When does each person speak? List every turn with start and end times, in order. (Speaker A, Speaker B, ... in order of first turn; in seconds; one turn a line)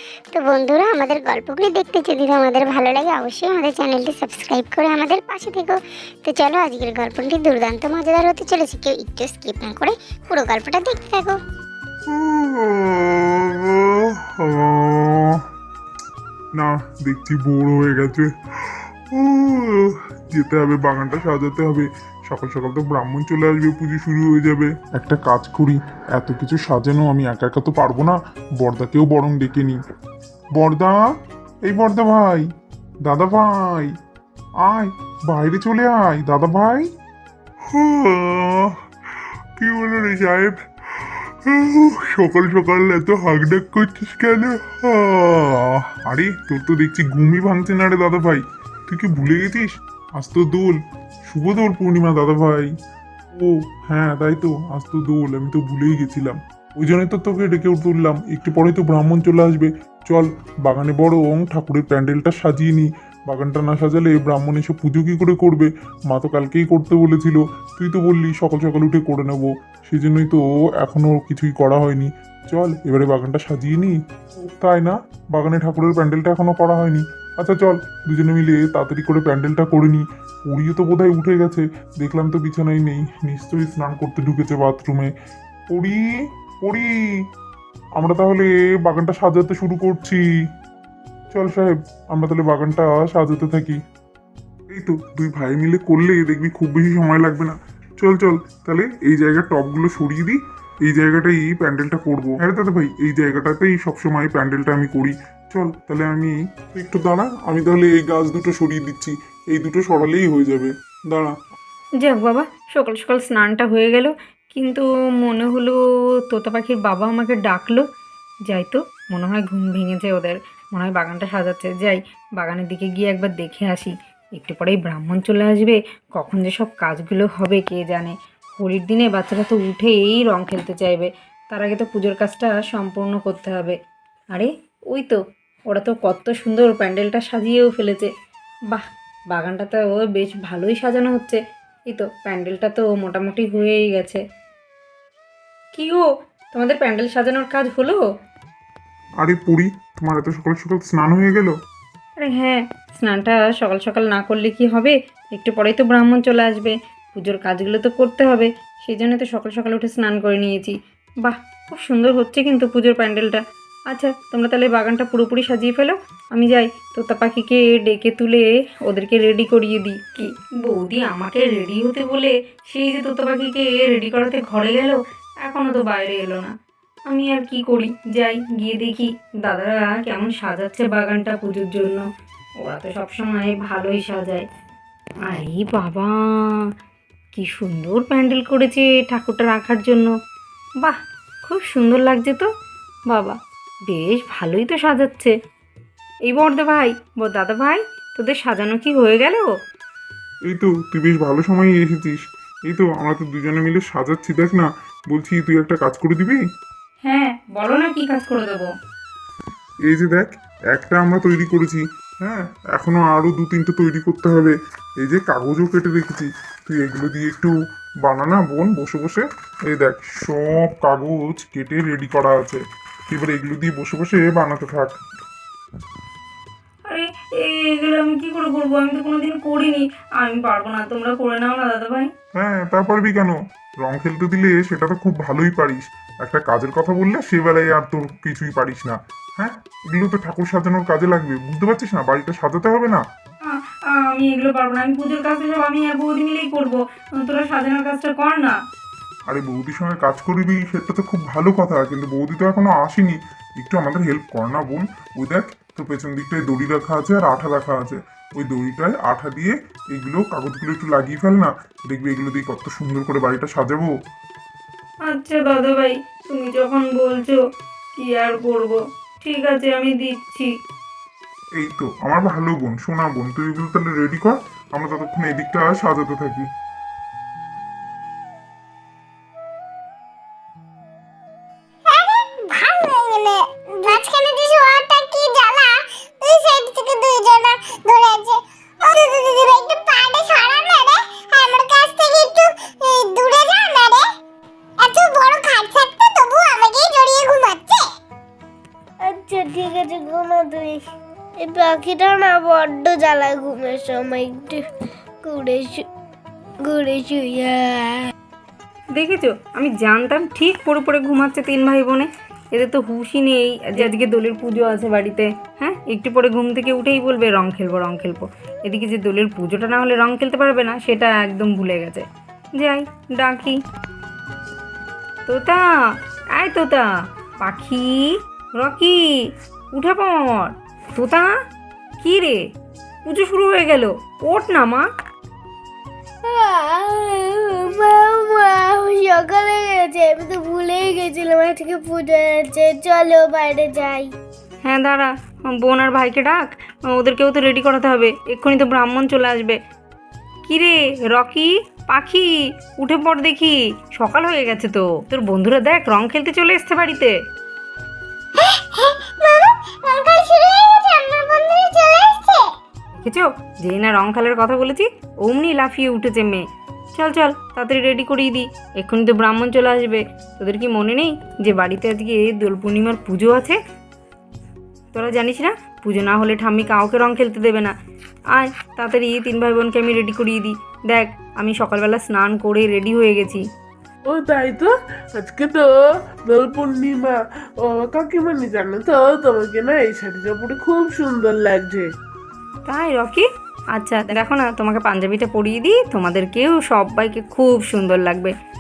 Speaker A: 0.3-11.4
Speaker B: 12.1-15.4
Speaker B: 16.6-29.8
Speaker B: 30.6-31.0
Speaker B: 31.6-32.5
Speaker B: 33.0-33.9
Speaker B: 34.6-36.9
Speaker B: 37.7-38.8
Speaker B: 39.6-52.7
Speaker B: 53.4-85.1
Speaker B: 85.7-86.0
Speaker B: 86.6-87.2
Speaker B: 88.0-90.2
Speaker B: 91.3-93.8
Speaker B: 94.7-111.3
Speaker C: 112.0-115.8
Speaker C: 116.3-117.8
Speaker C: 118.5-133.8
Speaker C: 134.3-135.2
Speaker C: 135.7-138.1
Speaker C: 138.7-141.4
Speaker C: 141.9-144.2
Speaker C: 145.7-148.0
Speaker B: 149.2-151.5
Speaker C: 152.2-163.4
Speaker C: 163.9-176.5
Speaker C: 177.1-182.0
Speaker C: 182.6-184.4
Speaker C: 185.3-186.6
Speaker C: 187.3-190.1
Speaker C: 190.8-192.5
Speaker C: 193.1-193.4
Speaker C: 193.9-195.3
Speaker C: 196.3-199.5
Speaker B: 200.5-206.4
Speaker C: 207.0-208.7
Speaker B: 209.8-225.0
Speaker C: 226.9-232.1
Speaker B: 232.4-243.0
Speaker C: 243.4-248.6
Speaker B: 249.3-263.9
Speaker C: 265.1-267.4
Speaker C: 267.9-270.5
Speaker B: 271.6-276.5
Speaker A: 281.9-294.1
Speaker A: 294.8-297.9
Speaker D: 299.1-300.8
Speaker D: 301.4-304.6
Speaker D: 305.2-305.9
Speaker D: 306.7-307.9
Speaker C: 308.9-322.0
Speaker C: 322.6-323.6
Speaker C: 325.3-325.6
Speaker C: 326.4-326.9
Speaker C: 327.4-329.0
Speaker C: 329.7-331.3
Speaker C: 332.0-332.4
Speaker C: 333.1-334.9
Speaker D: 336.3-344.1
Speaker C: 344.6-349.6
Speaker C: 350.4-357.1
Speaker A: 358.4-362.5
Speaker C: 363.0-366.4
Speaker C: 366.9-373.6
Speaker C: 374.9-377.7
Speaker C: 378.3-383.4
Speaker E: 384.1-385.7
Speaker E: 386.2-391.9
Speaker C: 392.7-398.3